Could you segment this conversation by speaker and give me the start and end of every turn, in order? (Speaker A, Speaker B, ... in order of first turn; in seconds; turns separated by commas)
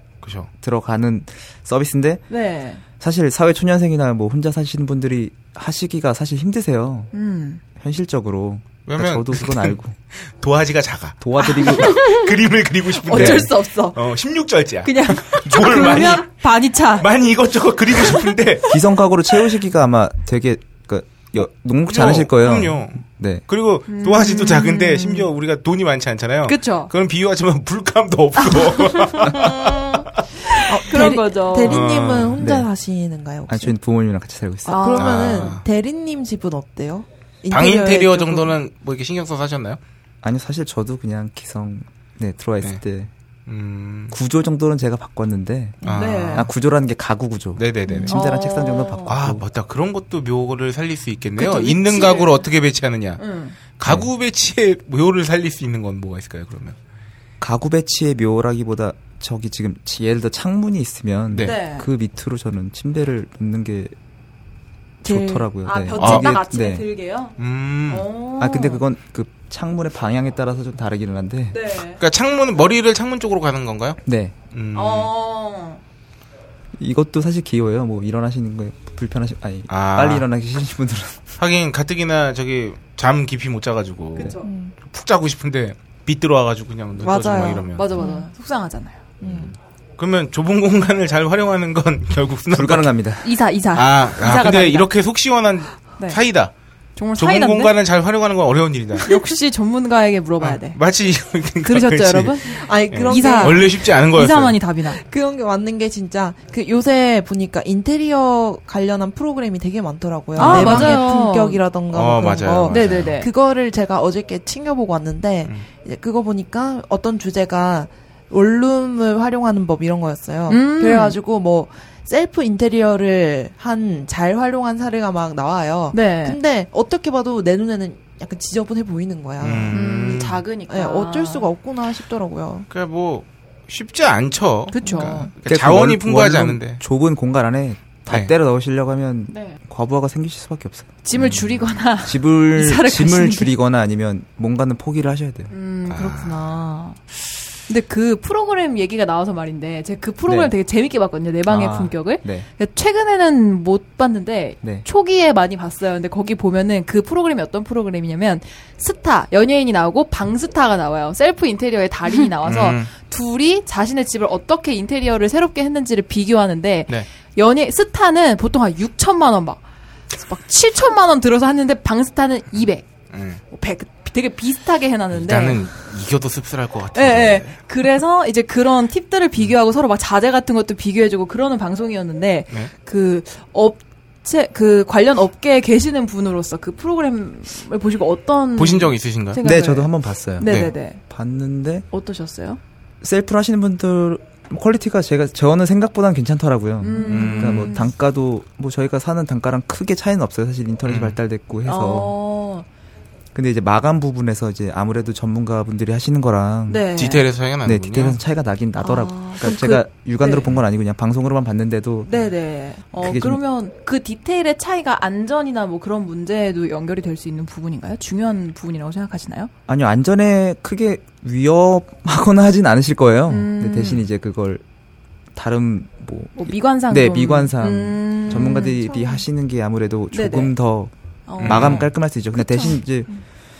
Speaker A: 0.2-0.5, Speaker B: 0.6-2.2, Speaker C: 2.3-2.8, Speaker B: 3.0-7.1, Speaker C: 7.1-7.6, Speaker B: 7.8-9.9, Speaker A: 8.8-18.8, Speaker B: 11.2-12.0, Speaker C: 11.4-12.3, Speaker C: 13.0-14.0, Speaker B: 13.1-13.5, Speaker C: 14.8-17.1, Speaker B: 18.7-23.4, Speaker A: 21.8-31.0, Speaker C: 23.9-25.3, Speaker C: 26.4-26.9, Speaker C: 28.4-29.7, Speaker D: 29.3-30.0, Speaker C: 30.5-31.8, Speaker D: 30.6-33.7, Speaker A: 31.6-32.4, Speaker B: 32.4-32.7, Speaker B: 33.5-34.8, Speaker C: 34.6-35.5, Speaker D: 34.6-38.5, Speaker A: 34.9-35.6, Speaker A: 37.5-39.8, Speaker B: 40.2-43.1, Speaker A: 43.5-44.1, Speaker B: 44.1-49.4, Speaker A: 45.8-46.5, Speaker C: 45.9-46.5, Speaker A: 47.5-48.2, Speaker C: 48.1-49.1, Speaker A: 49.1-53.2, Speaker C: 51.4-52.4, Speaker C: 53.2-53.5, Speaker A: 53.8-56.8, Speaker B: 57.4-63.9, Speaker A: 61.3-61.6, Speaker C: 61.4-61.9, Speaker B: 65.0-66.9, Speaker C: 65.0-67.3, Speaker A: 66.0-66.4, Speaker A: 67.4-68.1, Speaker C: 67.9-68.8, Speaker B: 68.4-71.6, Speaker C: 71.5-72.0, Speaker A: 72.0-74.0, Speaker B: 74.0-74.3, Speaker A: 74.5-75.1, Speaker C: 74.7-75.8, Speaker B: 76.8-81.3, Speaker A: 79.7-80.3, Speaker A: 81.4-88.0, Speaker C: 84.2-84.5, Speaker D: 84.4-84.7, Speaker C: 87.0-89.0, Speaker D: 87.1-88.2, Speaker D: 89.2-89.5, Speaker A: 89.2-93.0, Speaker B: 92.5-93.3, Speaker C: 93.2-94.9, Speaker A: 93.7-96.5, Speaker C: 97.0-97.7, Speaker A: 97.2-99.2, Speaker C: 99.0-100.8, Speaker A: 100.4-104.6, Speaker C: 101.6-105.0, Speaker D: 102.5-103.8, Speaker D: 104.9-132.7, Speaker A: 110.3-111.1, Speaker C: 110.3-111.6, Speaker A: 111.9-113.2, Speaker C: 112.7-113.3, Speaker C: 120.5-121.2, Speaker C: 125.9-126.4, Speaker A: 129.4-130.4, Speaker C: 129.7-131.5, Speaker A: 132.7-136.8, Speaker C: 134.7-135.3, Speaker D: 134.8-135.3, Speaker B: 135.4-141.3, Speaker A: 138.1-138.3, Speaker C: 139.3-139.6, Speaker C: 141.0-143.5, Speaker A: 141.2-141.7, Speaker B: 142.0-145.5, Speaker C: 145.5-147.0, Speaker A: 145.9-146.4, Speaker C: 147.7-169.6, Speaker B: 150.3-150.5, Speaker B: 151.5-152.5, Speaker A: 162.4-162.9, Speaker C: 170.1-172.8, Speaker A: 173.1-173.4, Speaker C: 173.5-175.7, Speaker A: 175.1-177.6, Speaker C: 176.9-191.0, Speaker A: 188.6-189.4, Speaker B: 189.4-191.8, Speaker A: 190.4-190.7, Speaker C: 191.9-192.6, Speaker B: 193.0-202.1, Speaker C: 196.8-197.9, Speaker A: 197.0-197.8, Speaker A: 200.8-201.2, Speaker C: 201.6-202.7, Speaker B: 203.3-206.8, Speaker C: 206.7-207.2, Speaker A: 206.9-208.2, Speaker B: 207.6-212.1, Speaker C: 208.8-210.6, Speaker C: 212.1-219.5, Speaker B: 212.9-213.4, Speaker B: 219.7-224.6, Speaker C: 223.3-224.1, Speaker B: 225.3-230.9, Speaker C: 226.3-228.8, Speaker D: 228.8-229.2, Speaker C: 230.1-230.5, Speaker C: 231.3-233.2, Speaker A: 231.4-231.9, Speaker B: 231.4-233.1